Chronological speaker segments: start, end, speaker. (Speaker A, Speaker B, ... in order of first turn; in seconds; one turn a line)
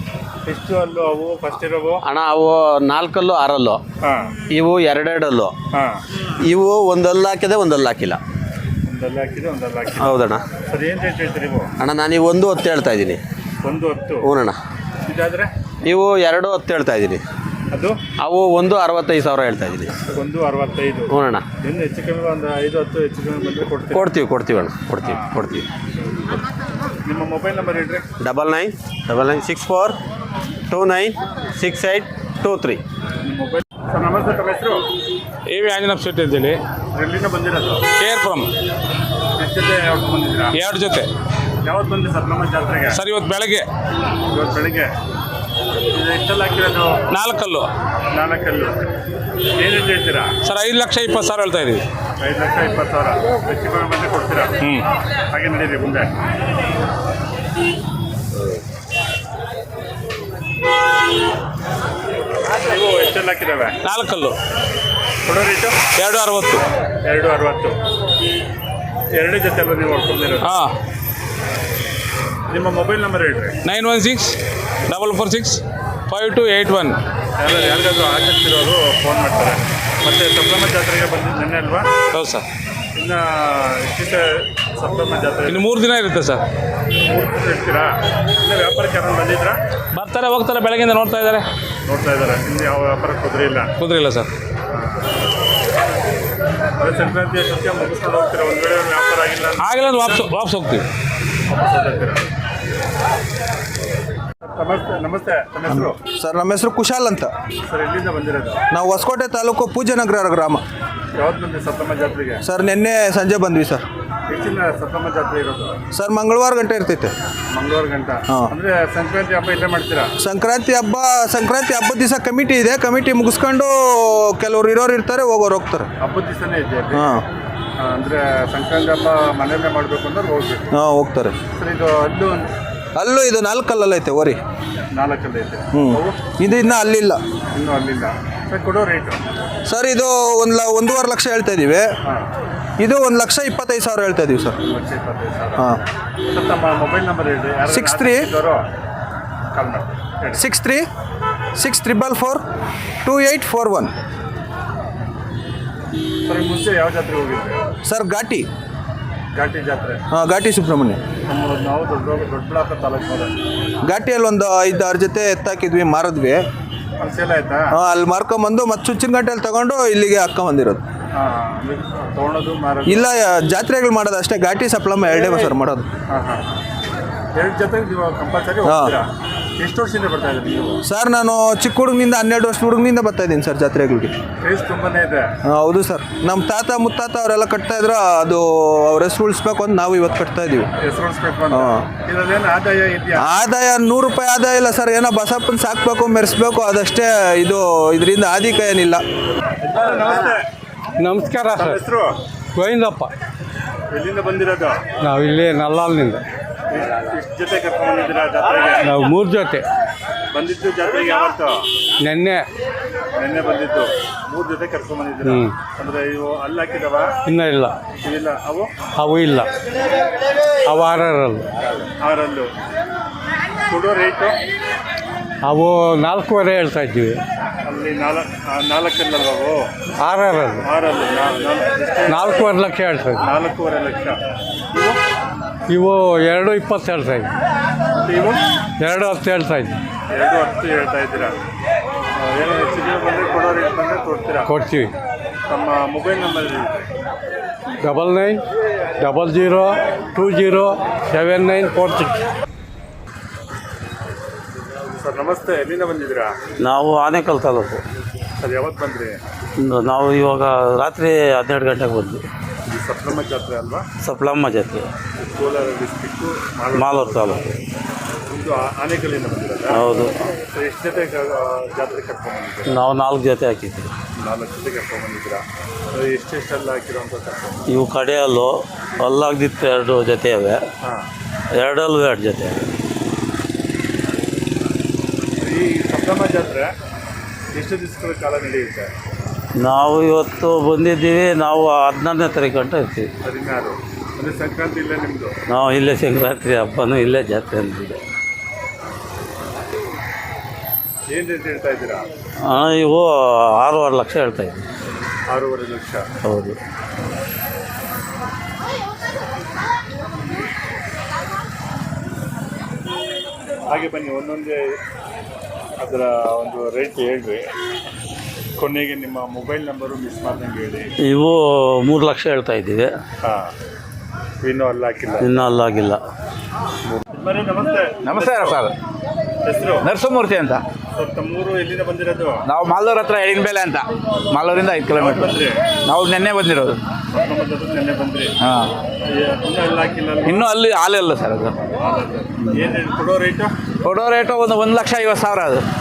Speaker A: 0.5-2.0
Speaker B: 2.1-3.8
Speaker A: 4.0-4.3
Speaker B: 4.5-5.5
Speaker A: 5.7-6.0
Speaker B: 6.4-8.2
Speaker A: 8.9-11.7
Speaker B: 11.8-13.2
Speaker A: 13.6-14.4
Speaker A: 15.1-15.5
Speaker B: 15.9-17.2
Speaker A: 17.7-18.0
Speaker B: 18.2-19.9
Speaker A: 20.1-24.1
Speaker B: 24.1-24.9
Speaker C: 24.8-25.5
Speaker A: 25.0-25.5
Speaker A: 27.1-28.1
Speaker B: 28.2-30.0
Speaker B: 30.7-32.8
Speaker A: 33.2-34.9
Speaker D: 35.5-36.6
Speaker A: 36.9-37.8
Speaker D: 38.0-38.5
Speaker A: 39.4-40.5
Speaker D: 40.5-41.1
Speaker A: 41.6-43.0
Speaker D: 42.9-43.7
Speaker A: 44.3-44.9
Speaker A: 45.9-47.0
Speaker D: 47.1-47.7
Speaker A: 48.1-48.8
Speaker A: 49.6-50.3
Speaker D: 50.5-51.8
Speaker A: 52.2-54.5
Speaker A: 55.3-56.1
Speaker A: 62.6-63.8
Speaker D: 63.8-64.4
Speaker A: 65.2-65.8
Speaker D: 66.0-66.6
Speaker A: 67.0-67.8
Speaker A: 69.1-70.5
Speaker D: 70.4-70.8
Speaker A: 72.5-73.5
Speaker D: 73.7-74.4
Speaker D: 74.9-77.0
Speaker A: 77.4-81.9
Speaker D: 82.1-82.4
Speaker A: 83.0-85.7
Speaker D: 85.5-86.4
Speaker A: 87.0-89.6
Speaker D: 89.9-91.5
Speaker A: 91.8-93.7
Speaker D: 93.8-94.3
Speaker A: 94.7-95.1
Speaker A: 96.8-100.2
Speaker D: 99.6-100.8
Speaker A: 101.5-102.2
Speaker A: 104.4-106.0
Speaker E: 105.7-107.3
Speaker A: 107.7-108.6
Speaker E: 108.7-110.6
Speaker A: 111.1-112.4
Speaker E: 112.4-113.8
Speaker A: 114.3-115.8
Speaker E: 115.9-117.1
Speaker A: 117.5-120.1
Speaker E: 120.2-125.9
Speaker A: 126.0-127.1
Speaker E: 127.0-127.2
Speaker A: 127.8-130.7
Speaker E: 130.7-131.4
Speaker A: 131.5-132.5
Speaker E: 133.0-134.4
Speaker A: 134.9-136.2
Speaker E: 135.7-137.2
Speaker A: 137.5-139.2
Speaker E: 139.7-141.9
Speaker E: 142.8-144.6
Speaker A: 144.7-145.7
Speaker A: 146.3-148.7
Speaker E: 147.7-148.3
Speaker A: 149.5-150.4
Speaker E: 150.4-150.8
Speaker E: 151.6-152.4
Speaker E: 153.1-153.9
Speaker A: 156.2-157.6
Speaker E: 157.8-158.5
Speaker A: 159.3-160.0
Speaker E: 160.1-161.0
Speaker A: 161.3-163.4
Speaker E: 163.9-166.4
Speaker A: 167.0-167.7
Speaker E: 167.7-170.8
Speaker A: 171.1-173.0
Speaker E: 172.9-175.9
Speaker A: 175.1-175.4
Speaker A: 176.1-176.5
Speaker A: 177.3-180.8
Speaker E: 180.8-184.1
Speaker A: 184.4-185.3
Speaker E: 185.5-190.7
Speaker A: 190.8-193.2
Speaker E: 191.5-191.9
Speaker E: 193.2-199.0
Speaker A: 199.6-200.5
Speaker F: 201.0-201.8
Speaker A: 201.5-202.2
Speaker F: 202.6-203.1
Speaker A: 203.9-204.9
Speaker F: 205.0-206.2
Speaker A: 206.7-208.9
Speaker F: 208.8-209.7
Speaker A: 210.3-211.7
Speaker F: 212.0-212.4
Speaker A: 213.2-217.1
Speaker F: 215.2-215.6
Speaker F: 217.3-217.7
Speaker A: 218.0-218.7
Speaker F: 219.0-219.5
Speaker F: 220.7-221.5
Speaker A: 221.8-222.5
Speaker A: 223.7-224.4
Speaker F: 225.4-227.2
Speaker A: 227.6-229.7
Speaker F: 230.0-230.7
Speaker A: 230.6-232.5
Speaker F: 232.1-233.3
Speaker A: 233.2-234.2
Speaker F: 235.7-237.3
Speaker A: 238.0-238.4
Speaker F: 238.8-239.8
Speaker A: 240.1-241.4
Speaker A: 242.2-244.5
Speaker F: 244.5-244.9
Speaker A: 245.5-246.9
Speaker F: 247.8-248.4
Speaker F: 249.0-252.2
Speaker A: 255.0-256.4
Speaker C: 256.6-257.8
Speaker A: 258.4-259.2
Speaker C: 259.6-262.2
Speaker A: 262.7-263.8
Speaker C: 264.0-264.9
Speaker A: 265.3-267.4
Speaker C: 266.7-267.6
Speaker A: 268.3-272.8
Speaker C: 269.7-270.3
Speaker C: 272.7-273.9
Speaker A: 274.2-277.7
Speaker C: 277.7-280.6
Speaker A: 280.8-281.1
Speaker C: 281.6-282.7
Speaker A: 285.4-286.7
Speaker A: 287.5-288.9
Speaker C: 289.6-293.1
Speaker A: 293.2-295.3
Speaker C: 295.5-298.0
Speaker A: 301.1-302.1
Speaker C: 302.5-304.6
Speaker A: 305.3-306.1
Speaker C: 306.3-306.6
Speaker A: 313.7-314.8
Speaker A: 315.8-317.5
Speaker A: 318.6-320.9
Speaker C: 321.0-322.9
Speaker A: 323.2-323.5
Speaker A: 324.4-325.3
Speaker C: 325.2-326.0
Speaker A: 327.1-328.6
Speaker G: 328.1-328.7
Speaker A: 329.4-329.9
Speaker G: 329.8-330.6
Speaker A: 330.9-332.4
Speaker G: 332.5-335.4
Speaker A: 334.9-335.6
Speaker G: 335.9-336.8
Speaker A: 337.1-338.3
Speaker G: 338.4-338.7
Speaker A: 339.0-340.4
Speaker G: 340.3-341.7
Speaker A: 341.8-343.5
Speaker G: 343.8-345.6